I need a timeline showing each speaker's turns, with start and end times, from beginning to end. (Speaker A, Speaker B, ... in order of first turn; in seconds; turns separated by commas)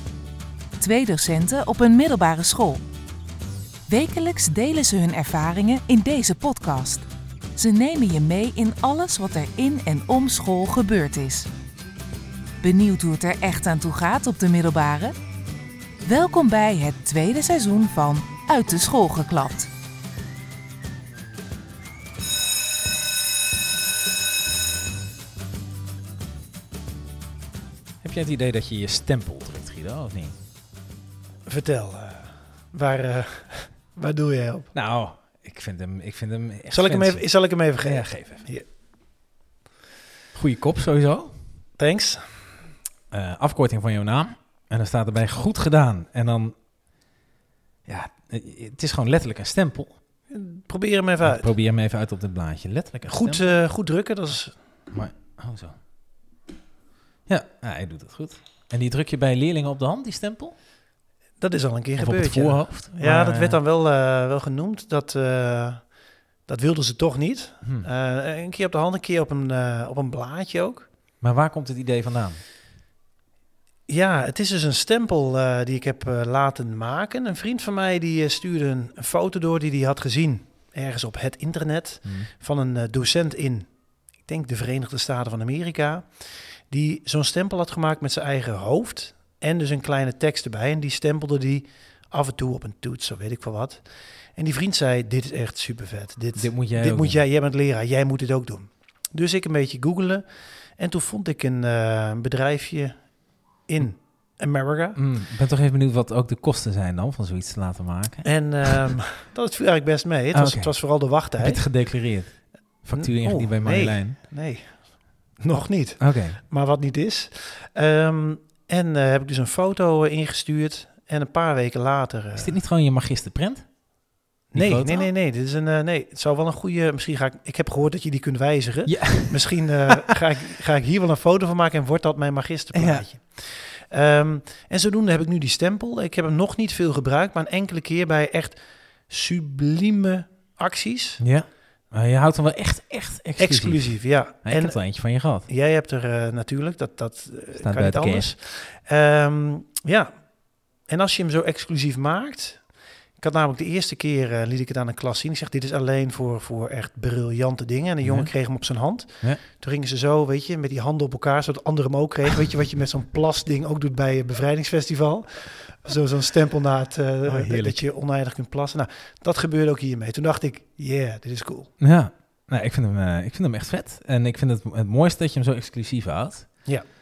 Speaker A: 0.8-2.8, Speaker A: 3.9-7.0, Speaker A: 7.5-11.5, Speaker A: 12.6-15.2, Speaker A: 16.0-19.7, Speaker B: 28.0-30.4, Speaker C: 31.4-34.7, Speaker B: 34.7-37.3, Speaker C: 36.7-38.6, Speaker B: 37.8-38.5, Speaker B: 40.3-41.3, Speaker C: 41.8-42.5, Speaker B: 43.1-46.5, Speaker B: 47.9-49.9, Speaker C: 50.3-51.5, Speaker B: 51.2-53.6, Speaker C: 53.1-54.5, Speaker B: 54.9-55.7, Speaker B: 57.3-60.5, Speaker C: 61.4-65.9, Speaker B: 62.0-63.6, Speaker C: 66.5-70.9, Speaker B: 67.6-67.9, Speaker B: 71.2-72.4, Speaker C: 73.9-83.7, Speaker B: 82.0-82.3, Speaker C: 84.2-103.1, Speaker B: 96.3-97.2, Speaker C: 103.7-105.0, Speaker B: 105.0-108.9, Speaker C: 108.2-111.8, Speaker B: 110.3-114.2, Speaker C: 112.9-114.8, Speaker C: 115.4-122.6, Speaker B: 116.0-116.4, Speaker B: 122.3-123.6, Speaker C: 124.5-141.2, Speaker B: 124.5-125.1, Speaker B: 128.8-130.1, Speaker B: 132.7-133.0, Speaker B: 141.2-145.5, Speaker C: 143.4-171.7, Speaker B: 147.6-148.3, Speaker B: 158.0-158.3, Speaker B: 167.2-167.8, Speaker B: 171.8-176.7